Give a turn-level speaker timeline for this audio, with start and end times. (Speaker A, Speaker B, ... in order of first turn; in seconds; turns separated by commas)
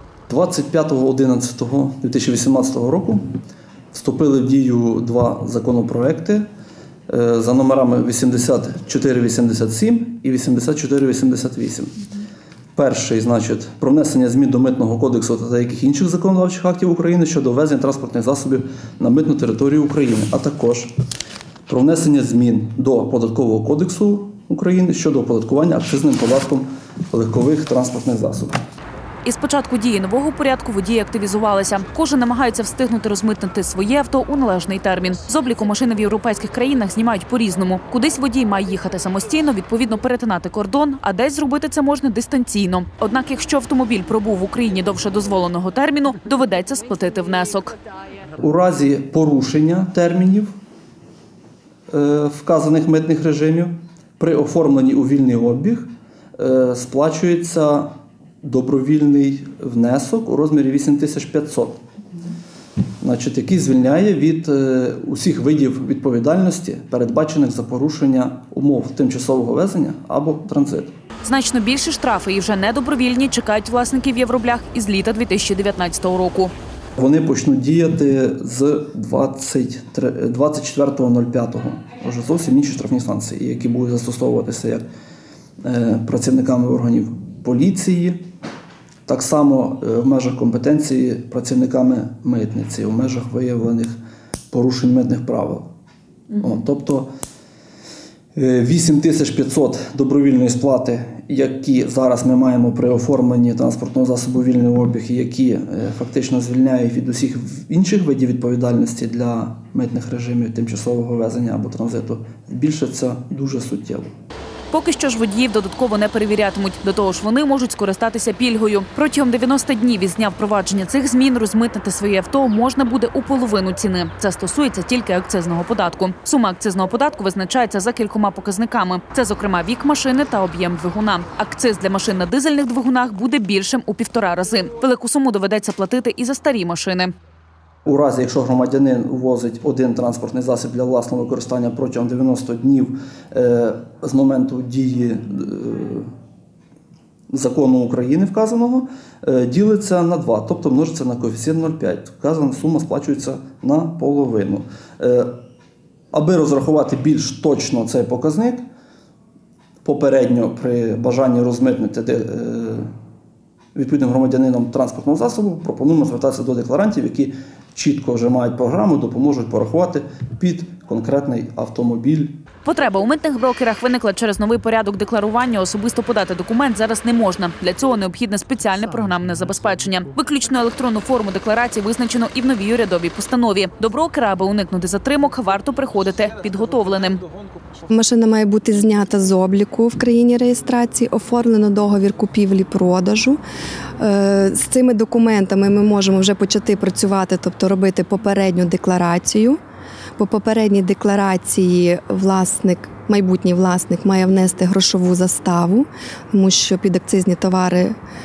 Speaker A: 0.3-3.3, Speaker A: 3.9-6.5, Speaker A: 7.1-12.0, Speaker A: 12.8-20.9, Speaker A: 21.7-28.6, Speaker B: 29.2-47.7, Speaker A: 48.4-50.5, Speaker A: 51.9-57.9, Speaker A: 58.4-61.8, Speaker A: 63.0-70.9, Speaker B: 71.2-76.5, Speaker A: 77.0-84.8, Speaker A: 85.6-88.2, Speaker A: 89.1-93.9, Speaker A: 94.5-95.7, Speaker A: 96.4-97.1, Speaker A: 98.4-114.1, Speaker B: 114.7-137.1, Speaker A: 137.9-146.1, Speaker A: 147.3-155.3, Speaker A: 156.1-158.6, Speaker A: 159.8-162.9, Speaker A: 163.8-172.4, Speaker B: 172.7-187.2, Speaker C: 187.9-193.4, Speaker C: 194.0-199.6, Speaker C: 200.2-208.0